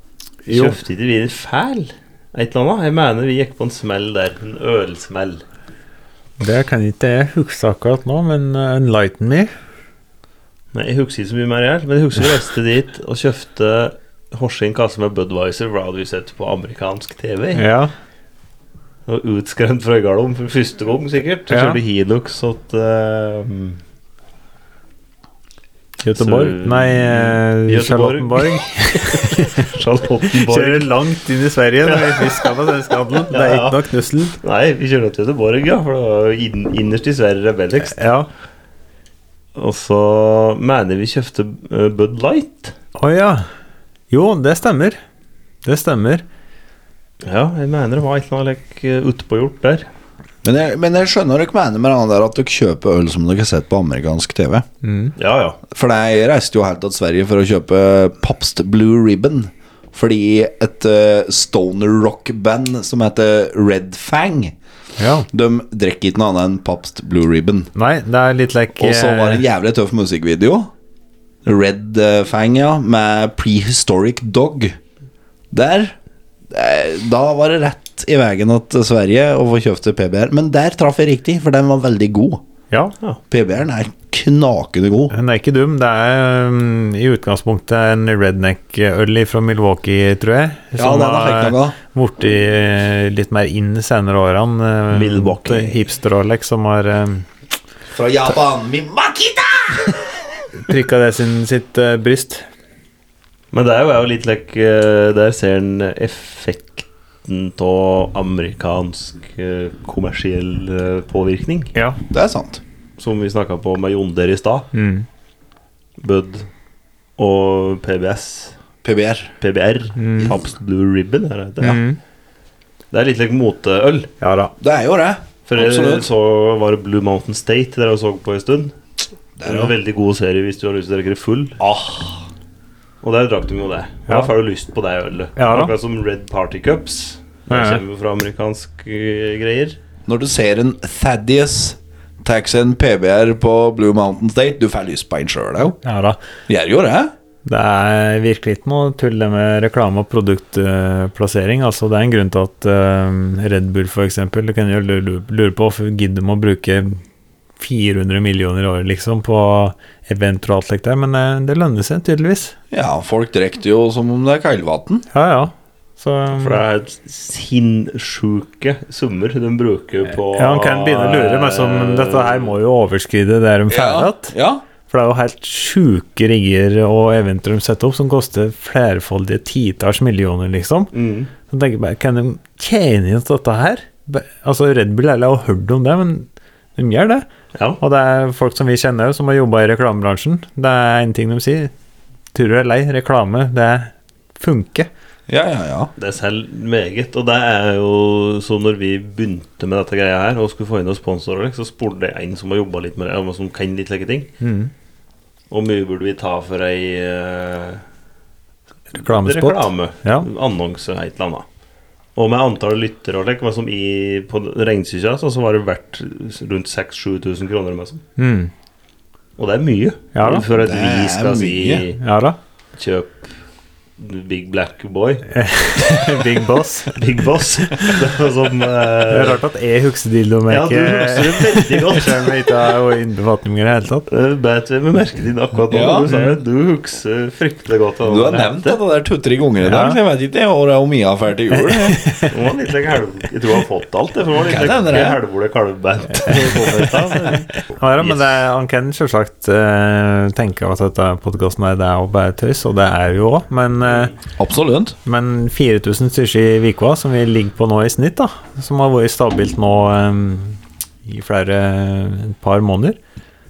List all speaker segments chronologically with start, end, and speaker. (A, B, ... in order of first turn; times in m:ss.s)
0:00.5-0:00.8 A
0:00.5-0:05.4 B
0:06.4-0:09.5 A
0:10.7-0:17.6 B
0:17.6-0:17.9 A
0:19.1-0:23.8 B
0:21.5-0:21.8 A
0:26.0-0:29.7 A
0:26.2-0:30.9 B
0:30.3-0:34.4 A
0:31.9-0:32.5 B
0:33.3-0:33.8 B
0:34.4-0:38.0 B
0:37.8-0:38.3 A
0:39.6-0:42.8 B
0:43.0-0:43.5 A
0:44.1-0:45.0 A
0:45.6-0:46.2 A
0:47.2-0:49.9 B
0:50.4-0:54.7 C
0:54.8-0:55.1 A
0:55.2-0:55.6 B
0:55.7-1:04.6 C
1:05.0-1:05.3 A
1:05.3-1:07.7 C
1:07.8-1:09.4 A
1:08.8-1:10.7 C
1:11.4-1:14.8 C
1:15.5-1:16.0 C
1:16.5-1:22.4 C
1:23.3-1:25.1 C
1:25.1-1:37.3 A
1:30.8-1:31.8 C
1:34.9-1:35.8 B
1:37.9-1:40.0 C
1:40.6-1:42.4 A
1:43.5-1:51.7 B
1:51.8-1:52.0 A
1:52.1-1:52.6 C
1:53.0-1:54.7 B
1:54.7-1:55.1 A
1:56.0-1:56.5 B
1:57.2-1:58.6 B
1:58.8-1:59.3 C
1:59.4-2:01.8 B
2:00.0-2:00.3 A
2:01.6-2:02.0 A
2:02.9-2:04.1 B
2:04.2-2:04.5 A
2:04.6-2:06.1 C
2:05.5-2:08.7 B
2:09.4-2:09.8 C
2:09.4-2:11.6 B
2:11.6-2:12.2 C
2:13.0-2:19.8 B
2:15.4-2:15.7 A
2:17.5-2:17.8 A
2:20.1-2:25.8 C
2:25.8-2:26.2 A
2:26.5-2:27.1 C
2:27.4-2:37.0 A
2:37.6-2:42.6 A
2:42.7-2:45.1 C
2:45.1-2:46.6 A
2:46.4-2:52.5 B
2:50.1-2:54.3 A
2:53.7-2:54.6 C
2:54.9-3:00.9 A
3:00.9-3:01.3 B
3:01.5-3:07.3 A
3:07.8-3:11.7 A
3:12.3-3:14.9 A
3:15.3-3:15.9 C
3:16.0-3:24.3 B
3:24.4-3:24.7 A
3:25.5-3:27.8 B
3:28.9-3:30.3 A
3:29.0-3:31.4 B
3:32.2-3:38.0 B
3:38.2-3:38.5 A
3:39.4-3:42.0 B
3:40.2-3:40.4 A
3:40.5-3:41.9 C
3:42.0-3:42.4 A
3:42.8-3:43.3 B
3:44.0-3:45.3 B
3:45.3-3:47.0 A
3:46.9-3:49.4 B
3:49.1-3:54.1 A
3:50.5-3:52.6 B
3:54.1-3:58.8 B
3:55.7-3:56.1 C
3:56.1-3:56.3 A
3:58.0-4:02.0 C
3:59.6-4:00.0 A
4:01.7-4:02.3 A
4:02.3-4:08.2 B
4:04.4-4:05.2 C
4:06.2-4:14.2 A
4:14.4-4:15.0 C
4:15.0-4:23.0 A